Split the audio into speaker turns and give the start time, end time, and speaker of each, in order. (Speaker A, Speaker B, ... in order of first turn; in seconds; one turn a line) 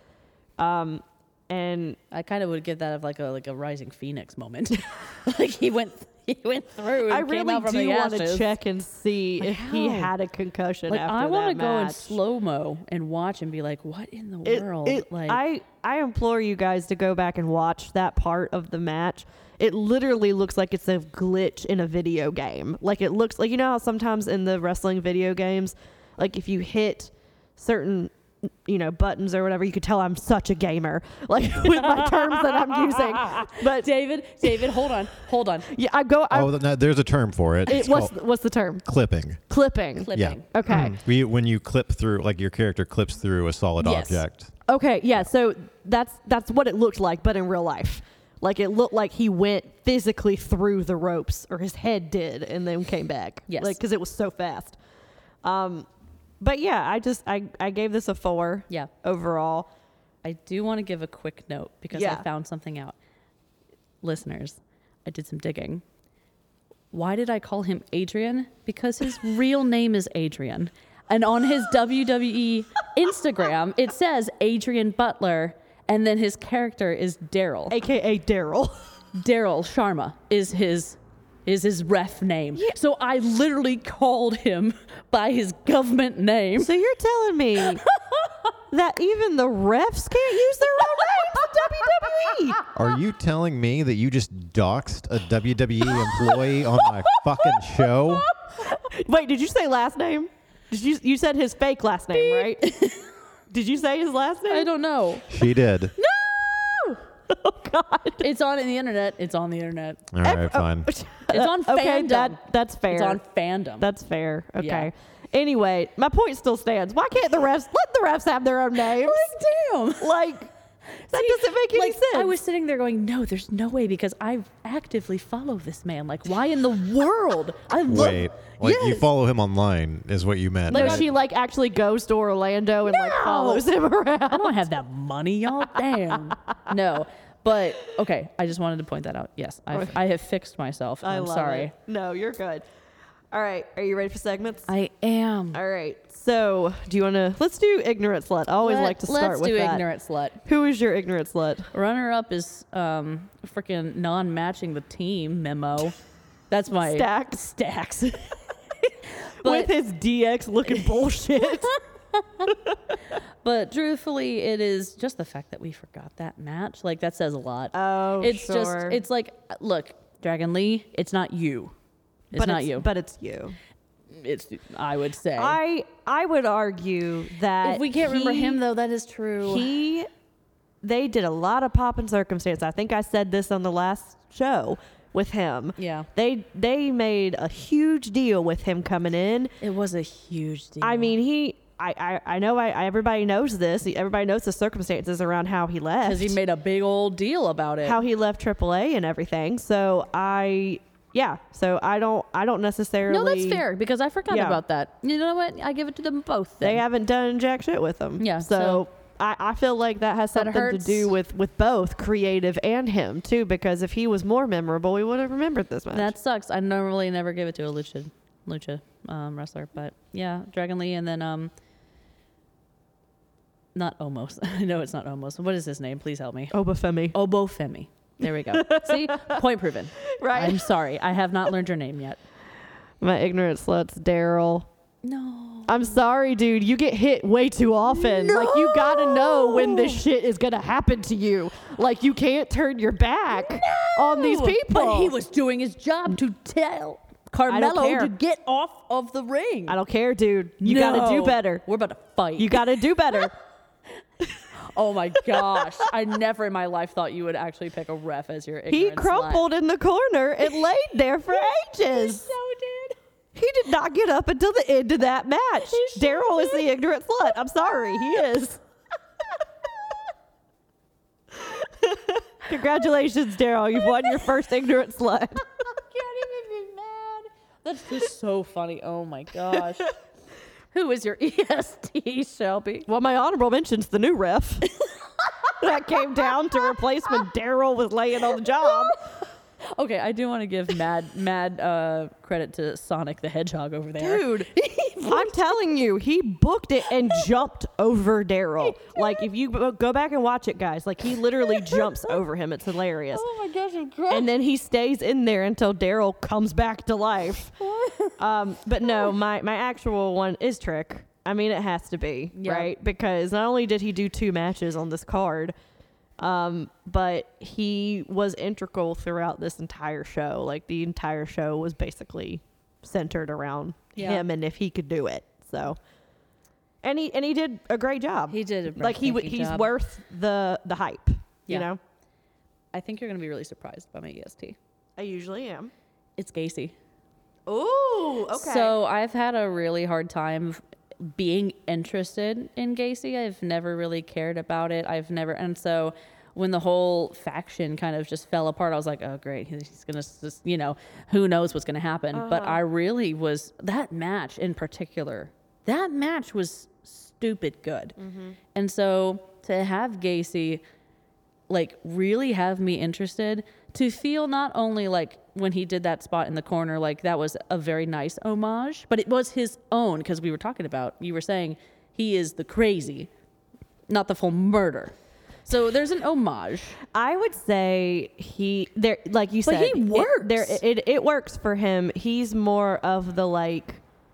Speaker A: 0.6-2.0
Speaker B: 2.1-8.5
Speaker A: 7.1-12.2
Speaker B: 9.4-10.1
Speaker B: 10.9-15.4
Speaker A: 14.4-28.1
Speaker A: 28.7-33.9
Speaker B: 31.8-35.7
Speaker A: 34.4-34.7
Speaker A: 35.7-36.5
Speaker C: 36.3-38.1
Speaker A: 37.7-38.9
Speaker C: 38.9-39.4
Speaker A: 39.5-41.0
Speaker B: 40.0-40.5
Speaker C: 40.1-44.5
Speaker B: 43.8-44.2
Speaker A: 44.7-54.8
Speaker B: 53.5-53.8
Speaker A: 55.4-55.9
Speaker A: 56.4-59.7
Speaker B: 60.2-63.0
Speaker A: 61.9-62.2
Speaker B: 64.0-65.8
Speaker B: 66.9-77.8
Speaker A: 77.7-78.8
Speaker B: 79.2-86.7
Speaker A: 86.6-87.8
Speaker A: 88.7-92.6
Speaker C: 92.7-98.3
Speaker A: 98.6-102.7
Speaker B: 102.1-103.1
Speaker A: 103.5-104.7
Speaker B: 104.5-105.3
Speaker C: 105.3-105.9
Speaker B: 106.0-107.0
Speaker A: 107.3-108.2
Speaker B: 108.2-110.1
Speaker C: 110.1-110.9
Speaker A: 110.2-113.2
Speaker B: 111.3-113.9
Speaker A: 113.8-119.4
Speaker B: 114.6-114.9
Speaker B: 118.8-120.1
Speaker A: 120.0-120.5
Speaker B: 121.0-129.1
Speaker A: 121.1-122.3
Speaker C: 127.9-131.1
Speaker A: 130.7-134.6
Speaker B: 130.7-131.1
Speaker B: 132.8-133.7
Speaker B: 134.3-141.7
Speaker A: 141.0-142.6
Speaker A: 143.3-144.7
Speaker B: 144.7-145.6
Speaker A: 145.5-149.8
Speaker B: 148.6-150.4
Speaker A: 150.4-151.7
Speaker B: 151.7-156.0
Speaker B: 156.5-159.7
Speaker A: 156.8-157.5
Speaker A: 159.4-161.8
Speaker B: 161.4-162.5
Speaker A: 162.5-162.9
Speaker B: 163.4-171.8
Speaker A: 167.7-169.0
Speaker B: 172.3-172.9
Speaker A: 172.3-173.6
Speaker B: 174.1-175.6
Speaker A: 175.4-178.6
Speaker B: 177.6-179.7
Speaker A: 179.4-180.1
Speaker A: 180.8-189.5
Speaker B: 185.8-186.1
Speaker B: 189.6-191.2
Speaker A: 190.8-196.4
Speaker B: 196.0-198.0
Speaker A: 197.8-203.6
Speaker B: 203.1-206.8
Speaker A: 204.3-204.6
Speaker A: 206.6-216.1
Speaker B: 208.2-208.8
Speaker B: 210.3-211.1
Speaker B: 215.9-221.5
Speaker B: 223.8-226.5
Speaker A: 226.5-227.2
Speaker B: 227.1-232.2
Speaker A: 228.5-229.4
Speaker A: 230.2-230.7
Speaker A: 233.0-234.7
Speaker B: 235.0-236.0
Speaker A: 235.7-245.1
Speaker B: 237.9-240.0
Speaker B: 243.3-249.8
Speaker A: 247.5-248.1
Speaker A: 249.7-251.6
Speaker B: 250.6-253.3
Speaker A: 252.4-253.3
Speaker B: 254.6-259.4
Speaker A: 255.3-255.8
Speaker A: 258.7-262.3
Speaker B: 261.4-263.0
Speaker A: 263.4-268.6
Speaker B: 265.6-266.7
Speaker A: 271.4-275.4
Speaker B: 275.7-279.9
Speaker B: 280.7-282.9
Speaker A: 282.9-284.7
Speaker A: 285.6-289.0
Speaker B: 288.6-288.9
Speaker B: 289.8-295.4
Speaker A: 294.0-294.5
Speaker A: 295.0-303.2
Speaker B: 298.6-299.2
Speaker B: 301.4-302.2
Speaker B: 303.1-304.3
Speaker A: 304.1-307.6
Speaker B: 307.6-308.2
Speaker A: 308.2-315.5
Speaker B: 308.8-309.1
Speaker B: 312.4-312.7
Speaker A: 316.2-325.8
Speaker B: 324.0-324.2
Speaker A: 326.8-331.8
Speaker B: 328.3-329.7
Speaker B: 332.7-334.6
Speaker A: 335.0-335.7
Speaker B: 336.2-336.8
Speaker A: 337.5-338.8
Speaker B: 338.3-358.0
Speaker A: 352.1-352.6
Speaker A: 358.0-358.4
Speaker B: 358.6-360.6
Speaker B: 361.5-373.1
Speaker B: 373.9-374.9
Speaker B: 375.5-376.8
Speaker A: 376.9-383.8
Speaker B: 379.5-380.6